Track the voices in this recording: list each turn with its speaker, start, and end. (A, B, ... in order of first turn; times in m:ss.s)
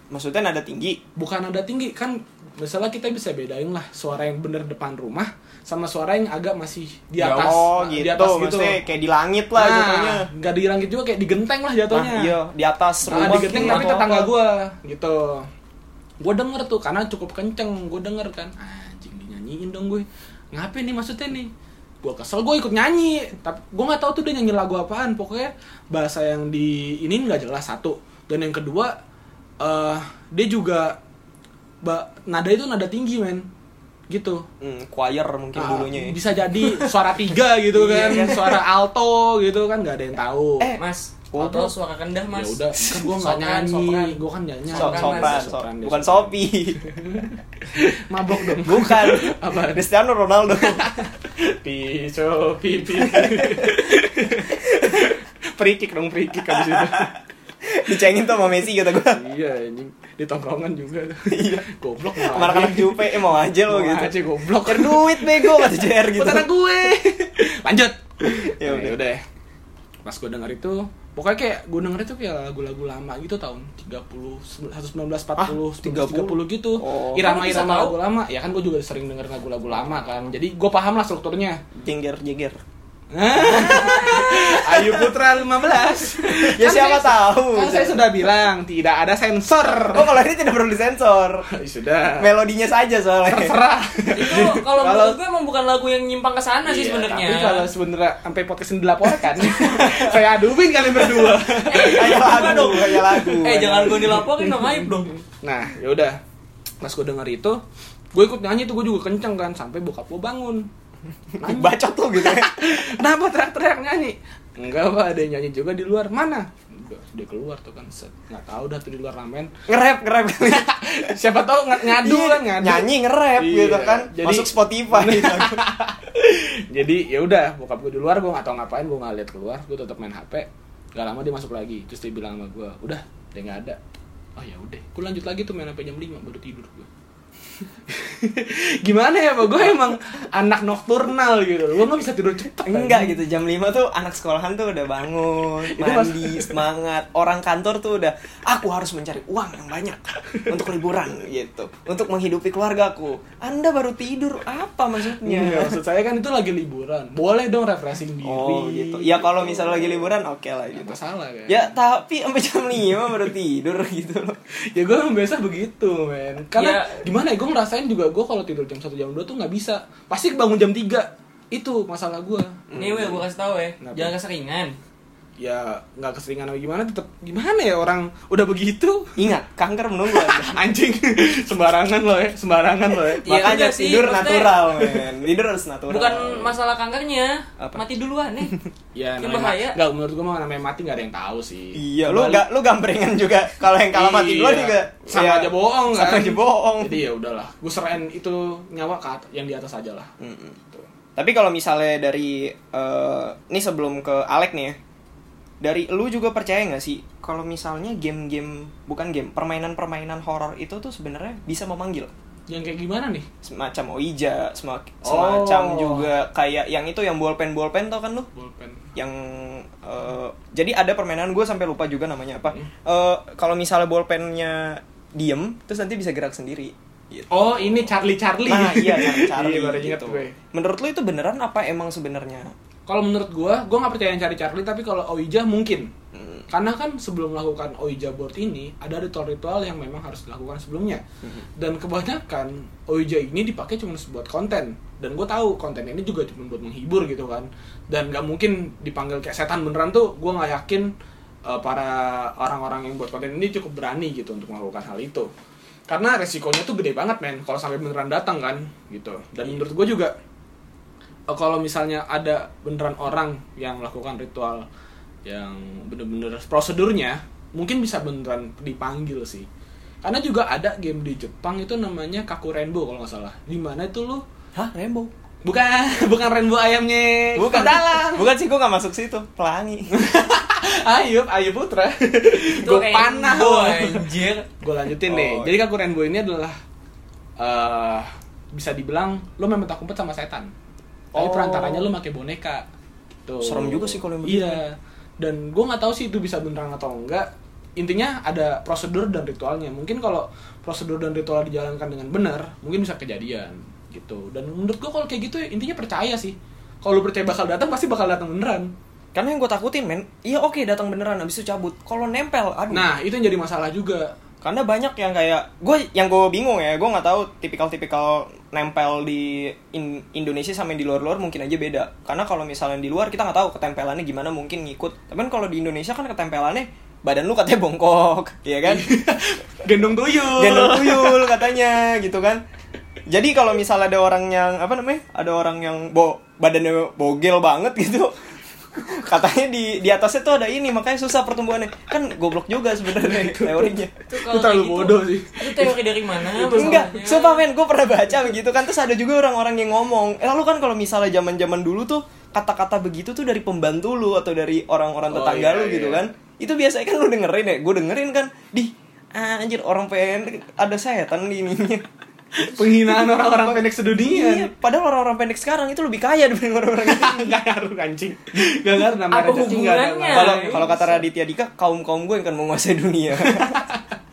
0:00.1-0:01.0 A
0:01.2-0:08.8 B
0:07.2-0:10.3 A
0:09.6-0:12.3 B
0:11.9-0:14.3 A
0:13.1-0:15.5 B
0:13.1-0:13.9 C
0:16.2-0:21.5 B
0:22.0-0:28.9 B
0:29.6-0:31.0 B
0:31.8-0:33.5 B
0:34.1-0:34.5 B
0:34.6-0:36.8 A
0:35.6-0:40.7 B
0:37.7-0:38.6 A
0:40.6-0:41.7 A
0:40.8-0:44.2 C
0:42.3-0:49.8 B
0:44.7-0:45.5 C
0:44.8-0:46.8 A
0:48.6-0:50.9 A
0:50.6-0:57.1 B
0:53.0-0:53.8 A
0:54.5-0:55.1 A
0:56.5-0:57.1 A
0:57.6-0:59.2 A
0:59.0-1:09.2 B
1:01.3-1:01.7 A
1:02.2-1:06.5 A
1:08.2-1:09.0 A
1:10.0-1:21.6 B
1:15.4-1:17.3 A
1:17.2-1:18.0 C
1:21.8-1:22.6 A
1:23.1-1:30.2 B
1:23.4-1:25.1 A
1:26.0-1:28.0 A
1:29.9-1:31.5 A
1:31.5-1:32.3 B
1:32.2-1:33.6 A
1:33.3-1:35.2 B
1:34.2-1:37.7 C
1:36.6-1:46.2 B
1:39.4-1:44.2 A
1:41.7-1:45.2 C
1:46.8-1:47.6 B
1:48.1-1:50.7 B
1:51.4-1:52.6 A
1:51.4-1:59.5 B
1:59.7-2:00.8 A
2:00.4-2:13.8 B
2:01.8-2:05.6 A
2:14.4-2:16.9 B
2:17.6-2:23.2 B
2:22.6-2:35.8 A
2:25.6-2:26.6 B
2:30.3-2:30.9 B
2:35.0-2:40.2 B
2:38.2-2:41.0 A
2:40.7-2:41.8 B
2:41.5-2:44.4 A
2:43.0-2:43.3 B
2:44.7-2:52.6 B
2:46.6-2:47.0 C
2:52.7-2:53.2 A
2:52.8-2:54.8 C
2:53.8-2:54.1 B
2:55.4-2:59.3 B
2:59.2-3:00.6 A
3:00.1-3:03.5 B
3:03.2-3:06.5 A
3:03.2-3:04.7 C
3:05.9-3:08.5 C
3:09.0-3:12.4 B
3:09.2-3:09.8 C
3:11.8-3:17.0 A
3:13.9-3:20.1 B
3:20.2-3:20.6 A
3:21.2-3:24.8 A
3:25.6-3:32.1 A
3:32.5-3:33.3 B
3:33.4-3:38.3 A
3:35.0-3:36.1 B
3:38.3-3:38.8 B
3:39.0-3:47.9 A
3:47.3-3:50.4 B
3:48.5-3:52.5 A
3:52.9-3:55.9 B
3:56.1-3:56.4 A
3:56.5-4:01.0 B
4:01.6-4:10.9 B
4:11.4-4:15.3 B
4:15.9-4:20.1 B
4:21.3-4:24.7 B
4:25.2-4:29.5 B
4:30.0-4:34.2 B
4:34.6-4:35.1 A
4:35.4-4:38.3 B
4:37.4-4:39.9 A
4:39.9-4:44.1 B
4:42.4-4:44.5 C
4:44.6-4:46.6 B
4:45.1-4:45.6 A
4:47.4-4:50.5 B
4:51.1-4:51.8 A
4:51.1-4:52.7 B
4:53.3-4:57.3 B
4:53.4-4:54.6 A
4:57.8-5:08.7 B
5:09.2-5:12.9 A
5:12.7-5:14.1 B
5:14.4-5:28.9 A
5:28.7-5:31.5 B
5:30.3-5:32.4 A
5:33.1-5:38.2 A
5:38.8-5:43.9 A
5:42.9-5:46.9 B
5:44.1-5:47.4 C
5:46.5-6:01.9 A
5:55.1-5:56.0 B
6:02.4-6:04.5 B
6:02.5-6:07.3 A
6:06.8-6:11.1 B
6:09.1-6:10.7 C
6:10.1-6:13.6 A
6:13.2-6:13.9 B